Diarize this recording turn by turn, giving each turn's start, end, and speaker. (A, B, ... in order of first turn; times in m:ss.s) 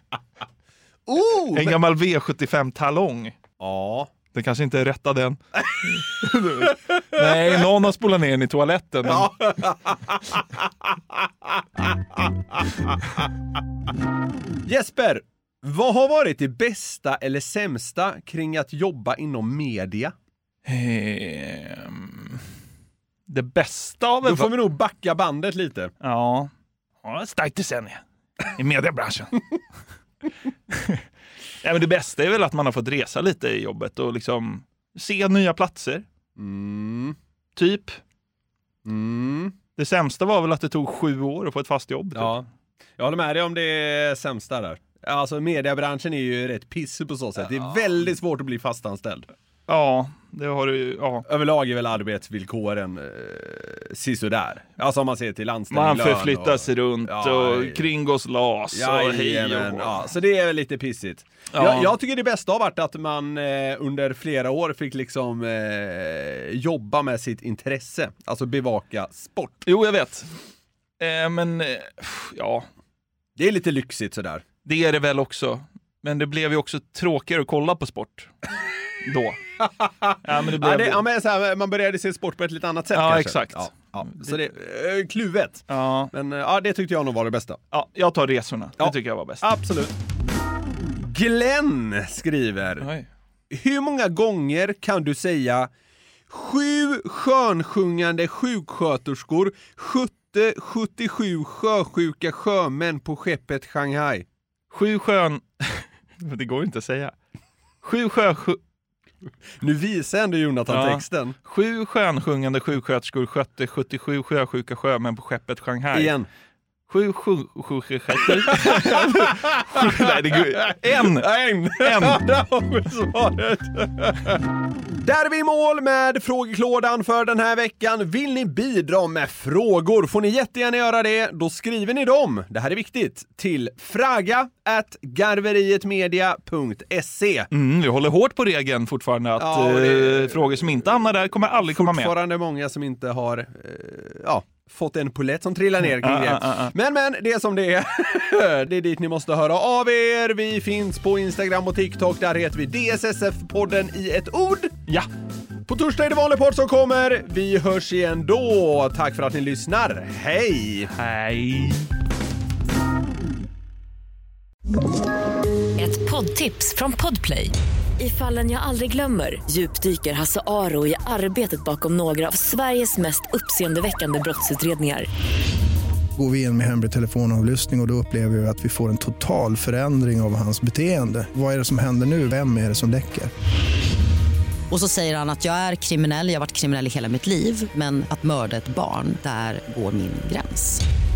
0:01.1-0:01.8 A
0:01.5-0:03.4 B
0:03.6-0:04.1 A
0:04.3-0:09.3 B
0:06.4-0:07.2 A
0:09.0-0:10.5 A
0:12.5-0:13.0 A
0:14.7-0:20.1 A
0:20.7-0:22.4 B
0:23.3-0:24.5 B
0:24.2-0:25.9 A
0:26.0-0:26.5 B
0:27.0-0:29.4 B
0:30.7-0:31.0 B
0:31.6-0:36.1 B
0:36.4-0:37.2 A
0:37.6-0:38.0 B
0:38.8-0:39.6 A
0:39.8-0:42.4 B
0:42.2-0:42.5 A
0:43.0-0:49.3 A
0:49.7-0:51.3 B
0:51.3-0:57.9 A
0:55.7-1:00.0 B
0:58.7-1:09.6 A
1:01.5-1:01.9 B
1:09.7-1:10.3 B
1:11.0-1:12.7 B
1:13.4-1:14.4 A
1:14.7-1:18.3 B
1:19.0-1:19.4 B
1:19.6-1:27.6 A
1:20.2-1:21.0 B
1:22.9-1:24.5 B
1:25.7-1:26.1 B
1:27.7-1:29.5 B
1:28.8-1:30.0 A
1:31.0-1:32.9 A
1:32.8-1:33.1 B
1:33.5-1:35.7 A
1:36.3-1:44.2 A
1:44.7-1:47.1 B
1:47.8-1:48.6 B
1:49.6-1:51.4 A
1:50.7-1:56.1 B
1:55.9-1:56.3 A
1:56.9-2:02.2 B
1:58.5-2:04.4 A
2:05.0-2:17.5 A
2:17.5-2:22.1 B
2:19.4-2:20.8 A
2:21.7-2:34.9 A
2:25.8-2:26.7 B
2:35.7-2:40.9 A
2:40.9-2:41.9 B
2:45.8-2:55.1 C
2:56.2-3:03.3 D
3:04.7-3:10.8 E